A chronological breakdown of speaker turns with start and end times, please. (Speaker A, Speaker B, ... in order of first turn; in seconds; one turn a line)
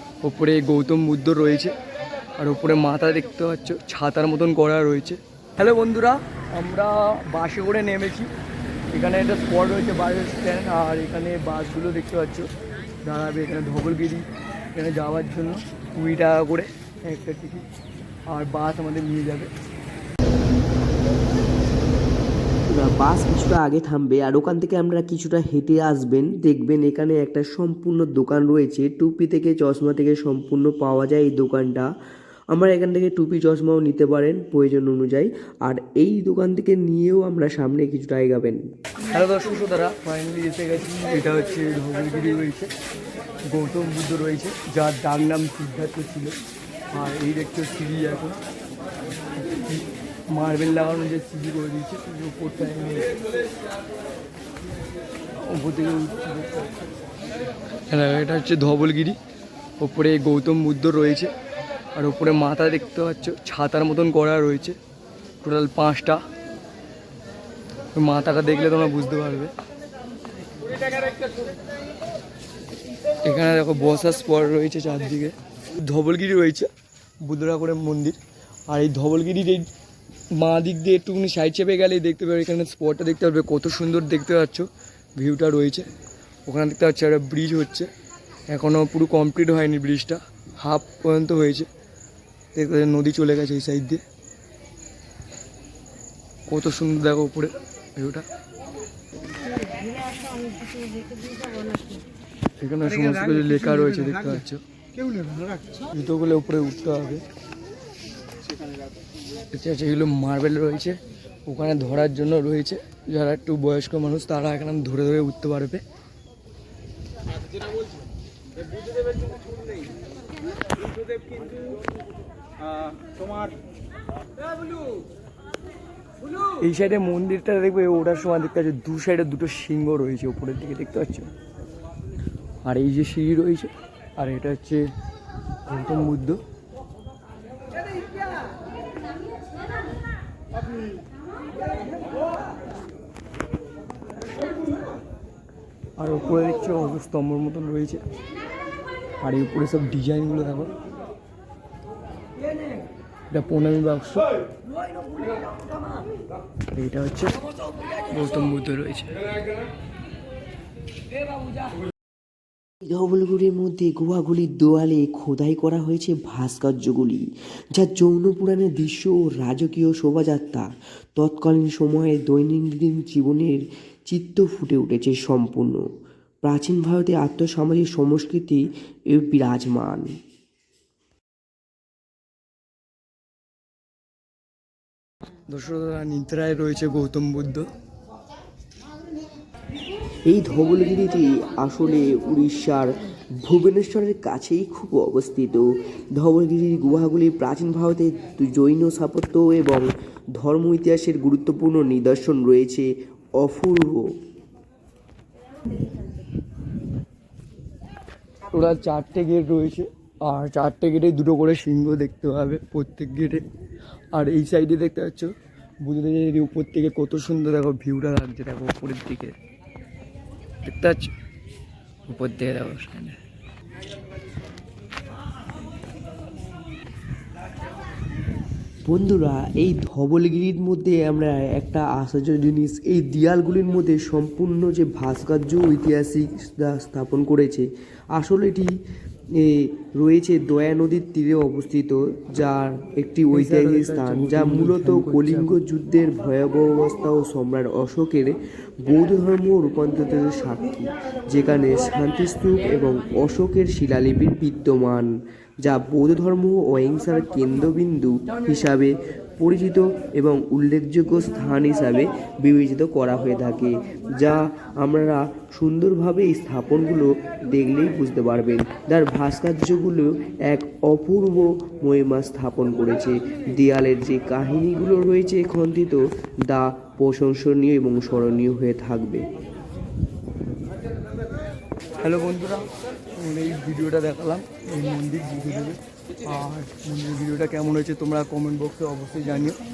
Speaker A: 0.2-1.7
Speaker A: 2.4-8.3
Speaker A: 8.9-12.5
Speaker A: 13.0-17.6
Speaker A: 18.3-19.5
Speaker B: 22.7-31.9
Speaker B: 32.5-38.6
Speaker A: 39.1-42.7
Speaker A: 43.5-46.4
Speaker A: 46.9-48.4
Speaker A: 49.4-53.1
Speaker A: 55.4-56.7
Speaker A: 57.9-59.2
Speaker A: 59.8-61.3
Speaker A: 62.0-64.8
Speaker A: 65.4-66.2
Speaker A: 68.0-69.5
Speaker A: 73.2-76.7
Speaker A: 77.2-78.2
Speaker A: 78.7-79.7
Speaker A: 80.4-85.9
Speaker A: 86.5-87.9
Speaker A: 88.5-91.7
Speaker A: 92.5-94.0
Speaker A: 96.5-98.2
Speaker A: 102.6-104.6
Speaker A: 105.9-107.2
Speaker A: 109.5-115.8
Speaker A: 126.6-131.3
Speaker A: 132.6-134.9
Speaker A: 135.7-136.4
Speaker A: 146.0-148.0
Speaker A: 149.2-150.7
Speaker A: 153.3-154.3
Speaker A: 156.7-157.4
Speaker A: 157.9-159.2
Speaker B: 162.8-175.8
Speaker B: 176.4-180.1
Speaker A: 185.5-187.7
Speaker B: 190.3-195.7
Speaker B: 196.2-204.1
Speaker A: 208.5-213.4
Speaker A: 214.1-219.4
Speaker A: 220.6-221.1
Speaker A: 222.1-223.2
Speaker B: 228.9-238.7
Speaker B: 239.4-255.1
Speaker A: 243.3-245.6
Speaker B: 255.6-279.2
Speaker A: 282.0-289.6